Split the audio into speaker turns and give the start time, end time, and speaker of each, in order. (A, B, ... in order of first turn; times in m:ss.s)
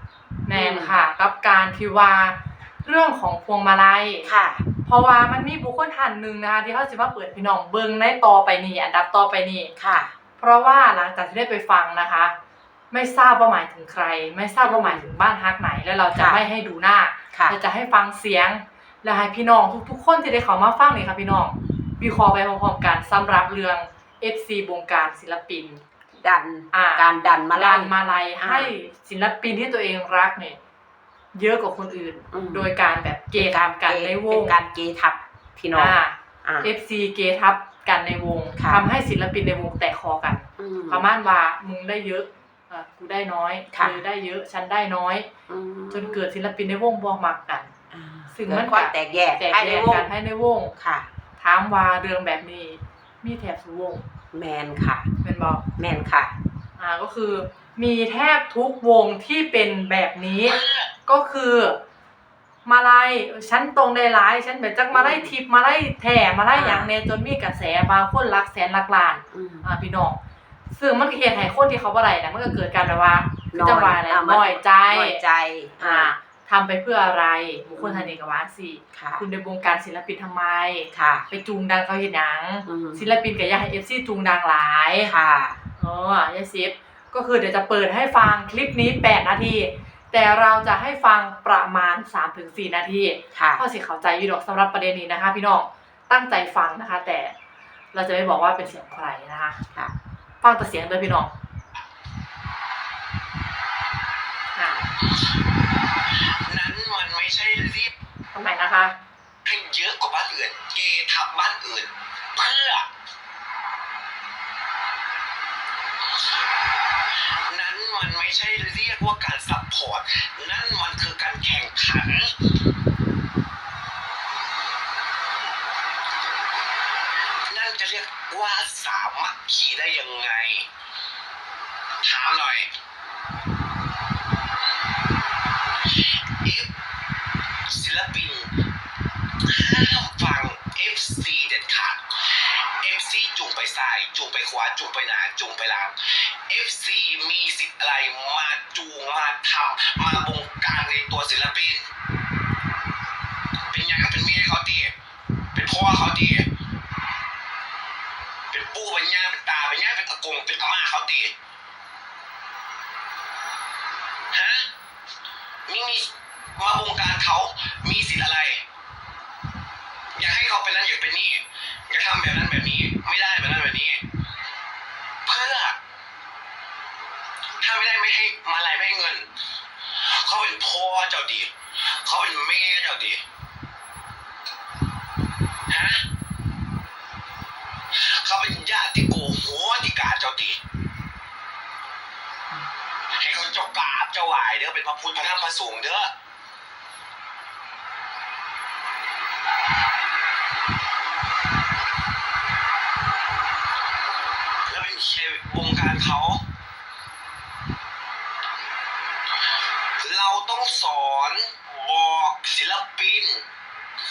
0:00.5-0:04.3 A
0:00.5-0:01.0 B
0:04.2-0:04.7 B
0:04.9-0:09.7 A
0:09.8-0:10.1 B
0:10.4-0:12.3 A
0:12.9-0:25.8 A
0:14.6-0:15.1 B
0:16.1-0:16.4 B
0:17.3-0:17.6 B
0:26.2-0:28.7 B
0:26.7-0:30.6 A
0:31.3-0:34.6 A
0:32.3-0:32.7 B
0:33.3-0:36.7 B
0:35.8-0:45.3 A
0:38.6-0:38.9 B
0:40.6-0:41.0 B
0:43.7-0:44.0 B
0:45.5-0:46.2 B
0:45.9-0:47.7 A
0:47.9-0:50.1 B
0:48.3-0:50.7 A
0:50.8-0:51.1 B
0:51.4-0:54.0 A
0:54.3-0:55.1 B
0:55.2-0:55.7 A
0:55.8-0:56.3 B
0:56.8-1:01.8 A
1:00.5-1:00.9 C
1:02.6-1:10.2 A
1:04.9-1:05.3 B
1:06.5-1:06.9 B
1:09.3-1:09.7 B
1:10.7-1:15.2 A
1:13.5-1:16.1 B
1:15.8-1:25.1 A
1:17.8-1:18.2 B
1:18.9-1:19.2 B
1:20.9-1:21.3 B
1:22.7-1:23.1 B
1:25.0-1:25.6 B
1:25.8-1:37.3 A
1:33.3-1:33.6 B
1:37.9-1:39.6 A
1:40.4-1:41.3 A
1:44.6-1:44.9 A
1:46.4-1:47.9 C
1:48.3-1:49.0 A
1:49.4-1:52.9 C
1:57.5-2:02.3 C
2:07.5-2:10.7 C
2:12.0-2:12.7 C
2:17.7-2:18.5 C
2:19.4-2:31.9 C
2:33.7-2:34.9 C
2:35.5-2:36.5 C
2:38.5-2:41.3 C
2:44.3-2:44.7 C
2:45.7-2:48.6 C
2:50.2-2:54.0 C
2:55.2-2:55.8 C
2:57.6-2:59.3 C
3:00.0-3:01.5 C
3:02.0-3:03.2 C
3:05.7-3:06.0 C
3:08.0-3:10.6 C
3:13.2-3:16.1 C
3:24.7-3:26.4 C
3:30.0-3:33.4 C